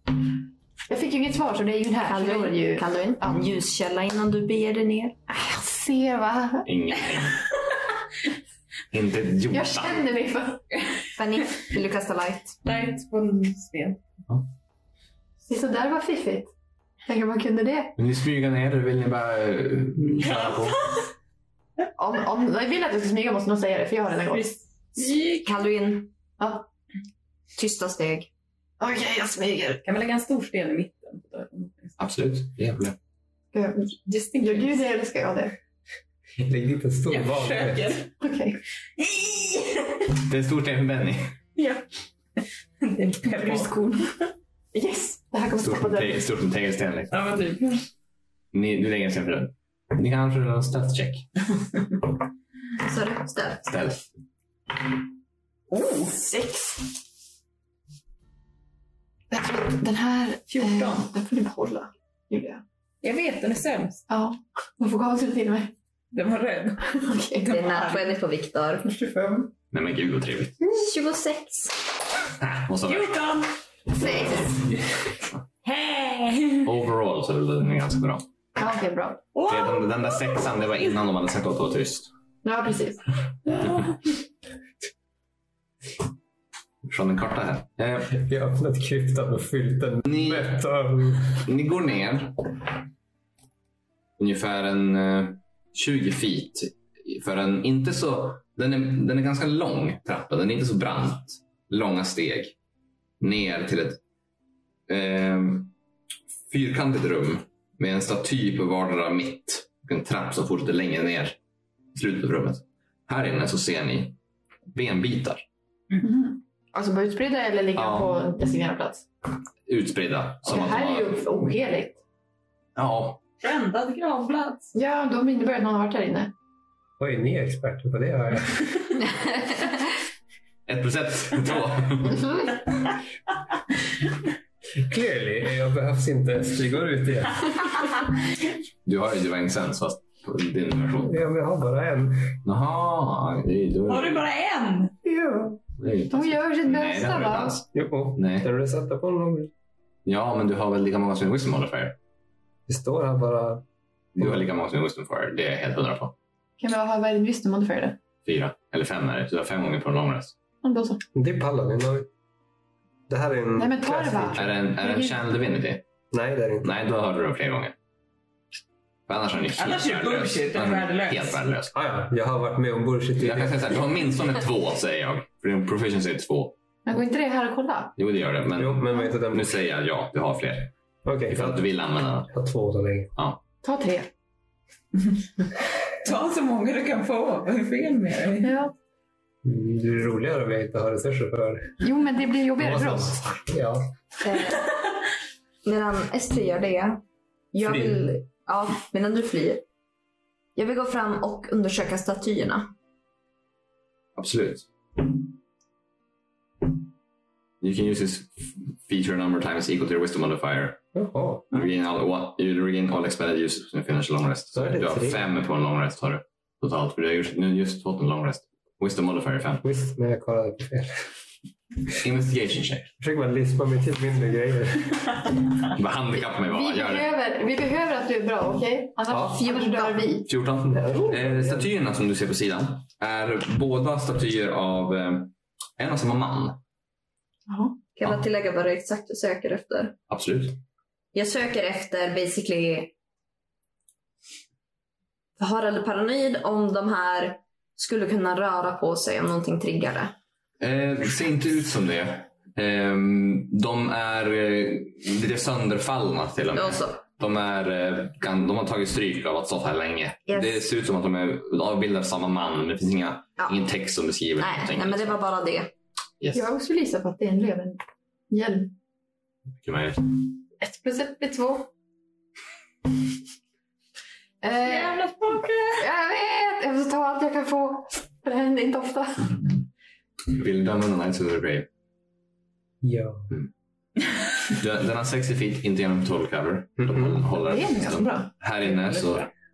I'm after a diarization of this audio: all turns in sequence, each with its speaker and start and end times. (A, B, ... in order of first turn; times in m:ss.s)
0:00.9-0:03.4 A
0:02.0-0:05.2 B
0:05.3-0:06.7 A
0:06.7-0:07.4 C
0:08.9-0:10.0 C
0:09.5-0:10.6 A
0:11.2-0:12.6 B
0:12.6-0:14.0 D
0:15.5-0:16.5 A
0:17.1-0:18.0 A
0:18.0-0:20.8 C
0:20.2-0:21.0 D
0:22.0-0:24.6 A
0:24.3-0:25.7 D
0:25.4-0:26.1 B
0:26.4-0:26.7 A
0:27.6-0:28.3 B
0:28.8-0:29.8 A
0:29.8-0:32.0 D
0:32.0-0:33.0 C
0:33.5-0:35.6 A
0:34.1-0:34.8 D
0:36.4-0:38.0 E
0:37.1-0:38.1 D
0:38.2-0:38.6 A
0:39.0-0:40.1 D
0:40.2-0:41.3 C
0:41.6-0:41.8 D
0:42.4-0:43.8 D
0:43.3-0:44.2 A
0:44.7-0:46.2 A
0:45.6-0:47.2 C
0:47.1-0:47.8 D
0:48.5-0:51.3 C
0:52.8-0:53.7 B
0:53.7-0:54.0 C
0:55.7-0:56.3 D
0:56.2-0:56.9 A
0:59.3-1:02.6 A
1:00.5-1:01.1 D
1:03.0-1:04.0 D
1:04.1-1:05.7 A
1:06.1-1:08.1 D
1:07.0-1:07.5 A
1:07.5-1:09.0 B
1:08.9-1:09.5 D
1:09.7-1:10.6 C
1:10.7-1:11.8 B
1:12.4-1:13.2 C
1:12.8-1:13.5 D
1:14.0-1:14.4 A
1:15.6-1:16.7 D
1:16.6-1:18.2 C
1:18.6-1:19.2 A
1:19.3-1:20.4 D
1:19.5-1:22.1 C
1:22.4-1:23.0 A
1:23.6-1:24.0 D
1:26.8-1:28.2 C
1:28.1-1:31.4 E
1:30.1-1:30.6 C
1:31.3-1:32.4 C
1:34.2-1:42.5 C
1:43.2-1:44.0 C
1:44.9-1:45.7 C
1:46.5-1:51.4 C
1:52.0-1:54.2 C
1:54.7-1:55.4 C
1:56.0-1:59.0 A
1:57.8-1:58.1 C
1:59.7-2:01.2 C
2:00.4-2:02.0 A
2:02.8-2:03.2 C
2:03.4-2:04.7 D
2:04.7-2:06.3 A
2:07.0-2:08.8 E
2:10.7-2:12.6 C
2:14.8-2:17.8 E
2:18.8-2:21.2 C
2:21.0-2:22.4 E
2:22.4-2:24.3 C
2:23.9-2:25.0 D
2:25.1-2:25.6 A
2:25.8-2:28.5 C
2:26.1-2:27.6 A
2:27.7-2:29.5 E
2:30.0-2:32.0 C
2:32.7-2:33.6 E
2:34.2-2:36.1 C
2:34.2-2:34.4 E
2:36.6-2:38.0 A
2:38.2-2:40.4 C
2:40.6-2:41.0 A
2:41.2-2:42.1 E
2:43.1-2:44.4 E
2:43.6-2:45.2 A
2:44.4-2:45.8 C
2:46.1-2:46.7 E
2:46.6-2:47.8 C
2:49.1-2:51.8 C
2:49.6-2:51.4 D
2:51.7-2:53.7 E
2:53.2-2:56.6 C
2:56.9-2:57.9 A
2:58.0-3:00.7 C
2:58.6-2:59.5 E
3:01.0-3:01.6 E
3:01.3-3:02.3 C
3:02.3-3:03.1 E
3:03.6-3:04.1 A
3:06.0-3:08.6 D
3:08.4-3:08.7 A
3:09.4-3:11.8 E
3:11.8-3:13.2 A
3:12.6-3:13.9 E
3:14.2-3:14.6 B
3:15.6-3:17.0 B
3:17.5-3:19.6 B
3:17.6-3:18.0 E
3:20.6-3:22.7 B
3:24.2-3:24.7 C
3:27.6-3:30.8 C
3:31.0-3:31.4 E
3:31.5-3:39.6 C
3:34.5-3:35.2 E
3:39.6-3:41.1 E
3:41.9-3:42.9 C
3:43.0-3:45.2 E
3:45.7-3:47.1 C
3:46.4-3:50.3 A
3:49.1-3:49.4 E
3:49.3-3:50.1 B
3:50.3-3:56.6 C
3:50.7-3:51.7 E
3:57.5-3:57.8 A
3:58.0-4:00.0 B
4:00.1-4:00.6 C
4:01.1-4:02.9 B
4:05.4-4:10.1 B
4:10.6-4:25.2 C
4:16.5-4:17.0 B
4:20.3-4:20.6 B
4:24.4-4:25.7 B
4:26.3-4:28.7 A
4:29.6-4:30.1 C
4:30.6-4:31.7 A
4:34.4-4:35.0 A
4:34.6-4:35.8 D
4:35.8-4:39.5 A
4:40.3-4:41.7 C
4:42.8-4:43.3 E
4:44.5-4:49.3 C
4:46.8-4:47.2 E
4:47.4-4:48.3 A